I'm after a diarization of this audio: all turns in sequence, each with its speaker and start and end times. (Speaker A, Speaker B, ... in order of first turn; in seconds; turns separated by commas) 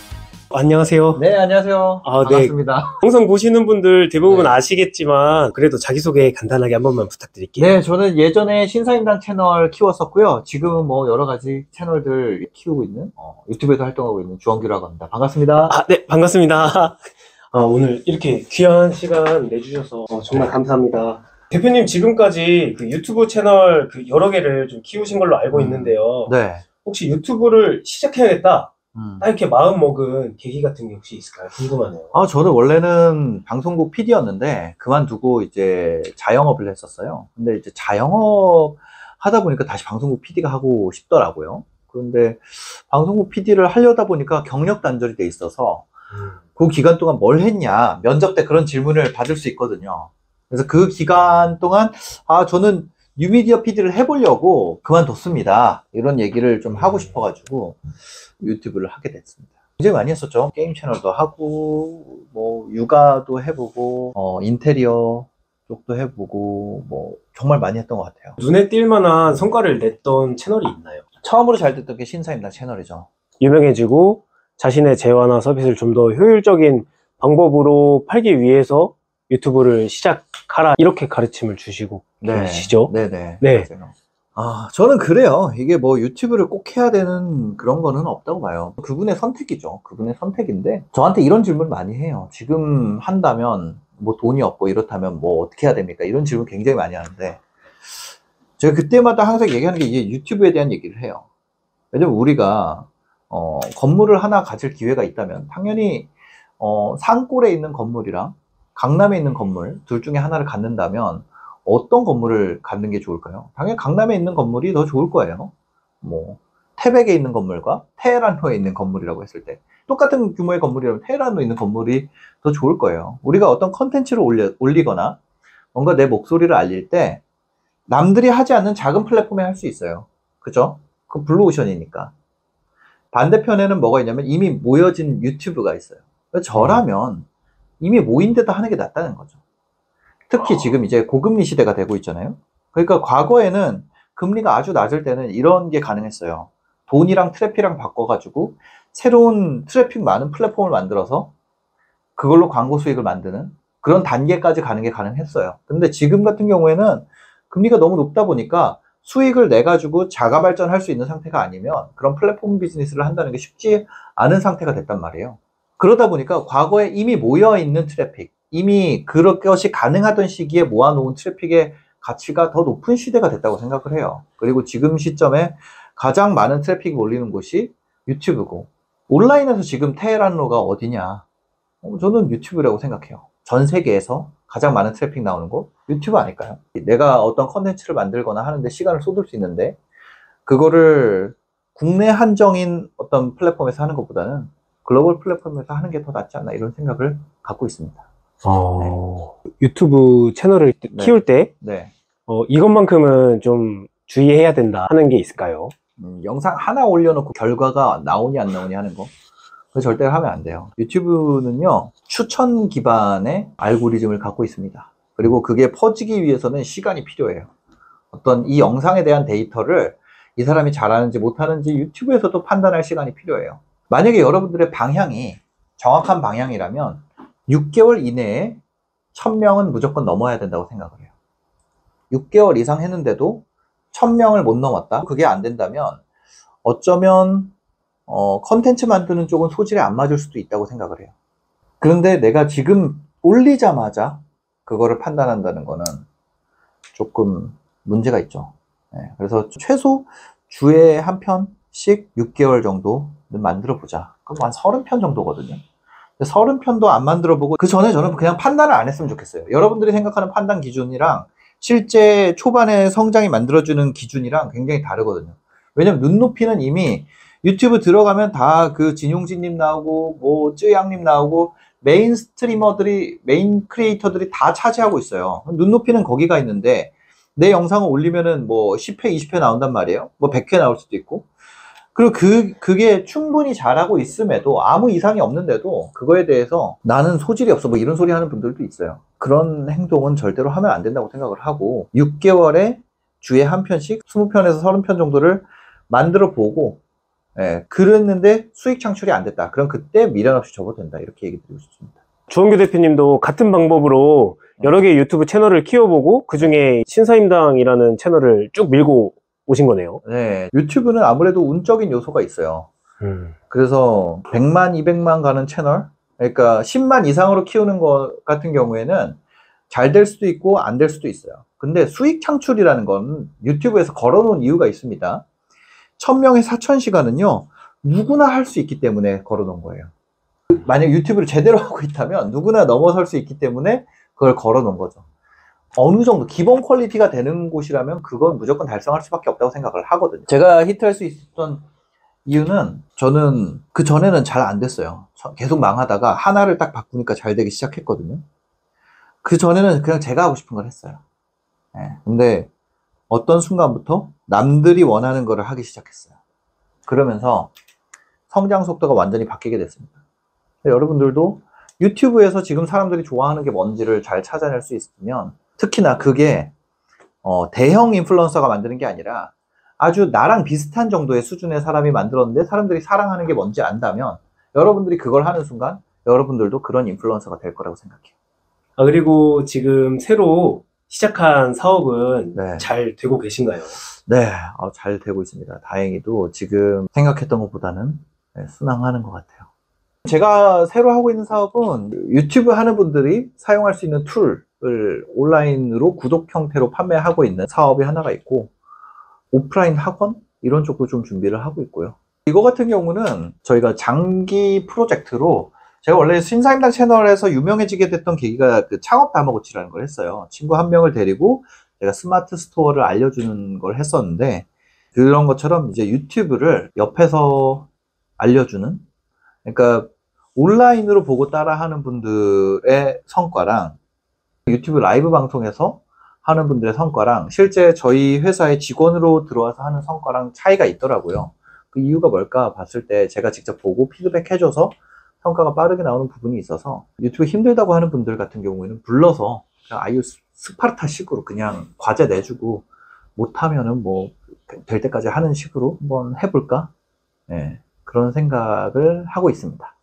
Speaker A: 0.5-1.2, Speaker B: 1.1-3.0, Speaker A: 2.0-7.8, Speaker B: 4.2-4.5, Speaker B: 7.6-15.7, Speaker A: 15.7-32.1, Speaker B: 25.5-26.6, Speaker B: 28.9-29.3, Speaker B: 32.1-45.9, Speaker A: 46.1-46.4, Speaker B: 46.5-68.4, Speaker A: 68.4-71.0, Speaker B: 71.2-73.1, Speaker A: 73.4-83.7, Speaker B: 82.2-97.4, Speaker B: 98.6-101.2, Speaker B: 101.9-125.2, Speaker B: 125.7-127.2, Speaker B: 127.9-132.1, Speaker B: 133.1-137.2, Speaker A: 136.5-136.8, Speaker B: 137.8-139.3, Speaker B: 140.3-151.3, Speaker B: 152.2-181.2, Speaker B: 181.8-189.8, Speaker B: 190.4-198.0, Speaker A: 198.4-201.5, Speaker B: 200.9-201.9, Speaker A: 202.3-205.7, Speaker B: 206.0-209.1, Speaker B: 209.7-217.5, Speaker B: 218.1-228.6, Speaker B: 229.1-231.1, Speaker B: 232.1-236.0, Speaker B: 236.6-237.5, Speaker B: 238.1-241.1, Speaker B: 241.8-246.0, Speaker B: 246.9-255.6, Speaker B: 256.2-281.3, Speaker B: 281.9-296.8, Speaker B: 297.3-302.0, Speaker A: 302.3-310.0, Speaker B: 304.6-304.8, Speaker B: 310.0-312.7, Speaker A: 313.0-313.3, Speaker B: 313.5-319.2, Speaker B: 319.7-325.2, Speaker B: 326.0-329.9, Speaker B: 330.5-335.0, Speaker B: 335.7-341.6, Speaker B: 342.2-348.2, Speaker B: 349.2-351.0, Speaker B: 351.7-352.5, Speaker B: 353.1-356.1, Speaker B: 356.9-357.5, Speaker B: 358.3-360.0, Speaker B: 360.6-366.5, Speaker B: 367.2-378.1, Speaker A: 378.8-383.8, Speaker B: 382.3-382.7, Speaker B: 384.0-389.4, Speaker B: 390.0-398.5, Speaker B: 399.3-418.8, Speaker B: 419.4-423.8, Speaker B: 424.5-446.7, Speaker B: 447.3-449.7